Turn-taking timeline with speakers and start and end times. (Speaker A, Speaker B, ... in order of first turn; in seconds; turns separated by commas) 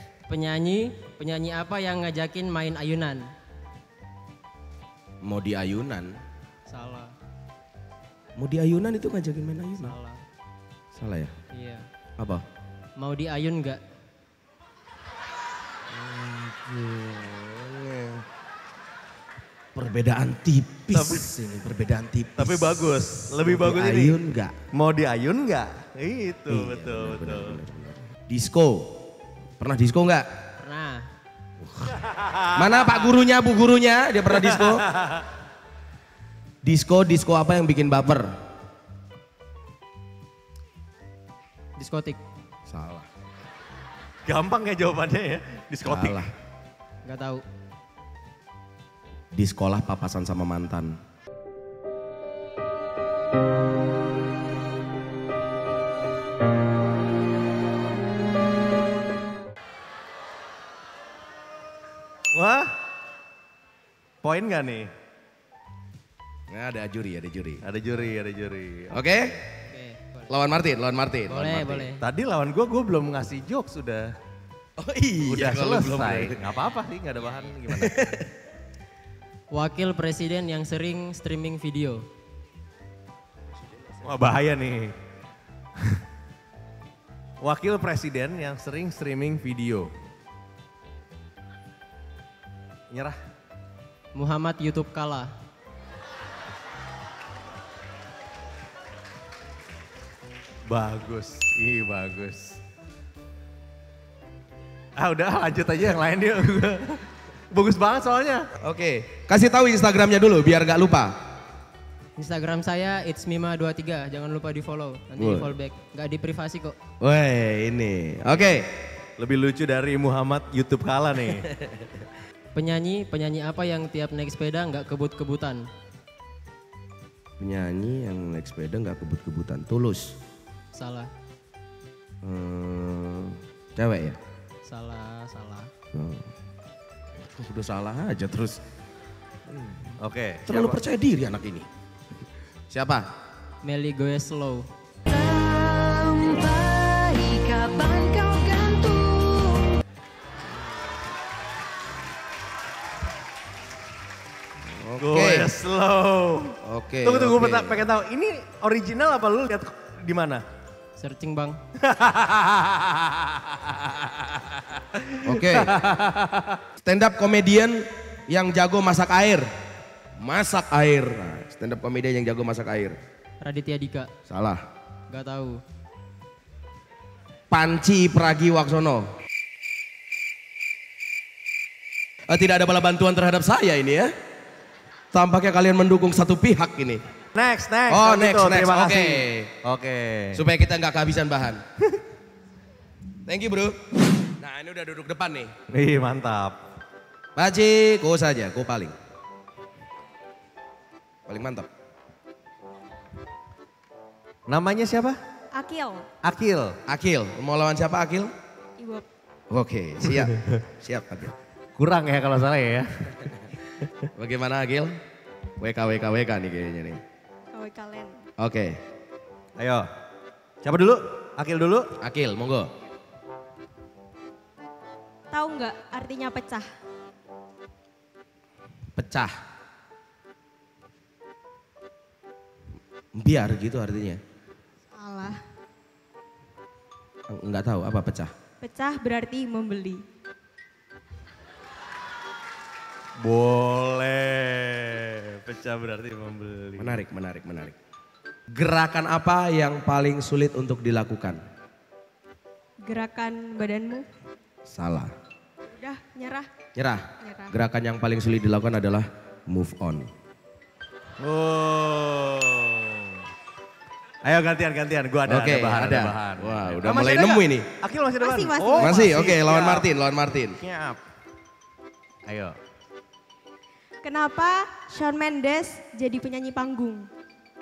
Speaker A: 0.3-3.2, Speaker B: 5.2-6.1, Speaker A: 6.7-7.1, Speaker B: 8.4-9.9, Speaker A: 9.8-10.2, Speaker B: 10.9-11.3, Speaker A: 11.5-11.9, Speaker B: 12.2-12.4, Speaker A: 13.0-13.8, Speaker B: 15.9-18.2, Speaker B: 19.7-24.5, Speaker C: 20.9-21.3, Speaker C: 22.4-24.2, Speaker C: 24.7-27.6, Speaker B: 26.5-28.9, Speaker B: 29.6-30.2, Speaker A: 30.6-31.0, Speaker B: 31.6-31.9, Speaker C: 32.0-33.0, Speaker B: 32.5-34.9, Speaker C: 34.4-35.2, Speaker B: 36.6-38.3, Speaker A: 41.8-42.2, Speaker B: 42.7-43.1, Speaker C: 44.2-46.2, Speaker B: 45.8-46.3, Speaker A: 47.0-47.4, Speaker B: 49.3-50.9, Speaker C: 62.3-62.7, Speaker C: 64.2-64.9, Speaker B: 66.5-67.6, Speaker C: 67.6-69.0, Speaker B: 68.9-69.3, Speaker A: 69.7-70.4, Speaker B: 70.3-71.8, Speaker A: 71.3-72.0, Speaker C: 72.0-74.1, Speaker B: 74.8-76.4, Speaker C: 75.2-78.0, Speaker B: 77.7-78.3, Speaker A: 79.5-82.0, Speaker C: 84.0-85.0, Speaker C: 87.4-89.9, Speaker C: 92.9-93.2, Speaker A: 94.1-95.3, Speaker C: 100.7-102.6, Speaker C: 105.0-108.5, Speaker B: 108.6-111.1, Speaker A: 112.2-116.8, Speaker B: 115.2-115.5, Speaker B: 117.0-118.7, Speaker C: 119.2-121.5, Speaker A: 122.5-125.6, Speaker B: 127.4-130.2, Speaker A: 130.7-131.1, Speaker B: 132.2-134.2, Speaker A: 134.6-135.7, Speaker B: 135.9-136.3, Speaker B: 137.3-138.6, Speaker B: 139.5-139.8, Speaker C: 140.0-140.8, Speaker B: 140.4-141.7, Speaker B: 142.7-143.0, Speaker A: 143.6-144.6, Speaker D: 145.2-149.7, Speaker B: 154.7-155.5, Speaker C: 155.0-160.4, Speaker B: 156.6-157.8, Speaker A: 161.0-161.6, Speaker C: 161.8-166.6, Speaker B: 165.2-165.7, Speaker B: 166.8-169.4, Speaker B: 170.2-173.0, Speaker A: 173.4-174.1, Speaker B: 174.3-174.6, Speaker A: 175.1-175.6, Speaker B: 177.5-179.1, Speaker B: 182.3-184.1, Speaker B: 185.1-187.0, Speaker C: 187.3-190.4, Speaker B: 187.9-189.5, Speaker B: 190.3-191.6, Speaker B: 193.2-193.8, Speaker B: 194.4-195.5, Speaker C: 195.7-196.6, Speaker B: 197.3-198.9, Speaker B: 201.3-201.7, Speaker C: 204.5-205.2, Speaker E: 205.5-206.1, Speaker C: 206.2-206.8, Speaker B: 206.9-208.3, Speaker E: 208.8-209.1, Speaker B: 209.5-211.3, Speaker C: 211.8-213.4, Speaker B: 214.1-214.9, Speaker B: 215.6-217.0, Speaker E: 217.5-218.2, Speaker B: 218.4-218.8, Speaker C: 219.6-219.8, Speaker C: 220.6-221.9, Speaker B: 222.0-222.7, Speaker E: 225.3-226.7, Speaker B: 228.9-229.3, Speaker B: 233.2-234.2, Speaker E: 234.9-235.4, Speaker B: 237.3-238.3, Speaker E: 238.6-240.0, Speaker C: 243.2-247.0, Speaker B: 246.8-247.8, Speaker B: 248.5-251.4, Speaker E: 252.8-254.1, Speaker B: 254.7-255.1, Speaker E: 255.7-256.5, Speaker B: 256.8-260.1, Speaker E: 257.2-257.6, Speaker C: 261.2-263.2, Speaker C: 264.2-269.9, Speaker B: 265.2-267.6, Speaker E: 268.2-269.0, Speaker B: 268.8-270.6, Speaker C: 270.5-271.0, Speaker C: 272.3-272.6, Speaker E: 274.0-277.1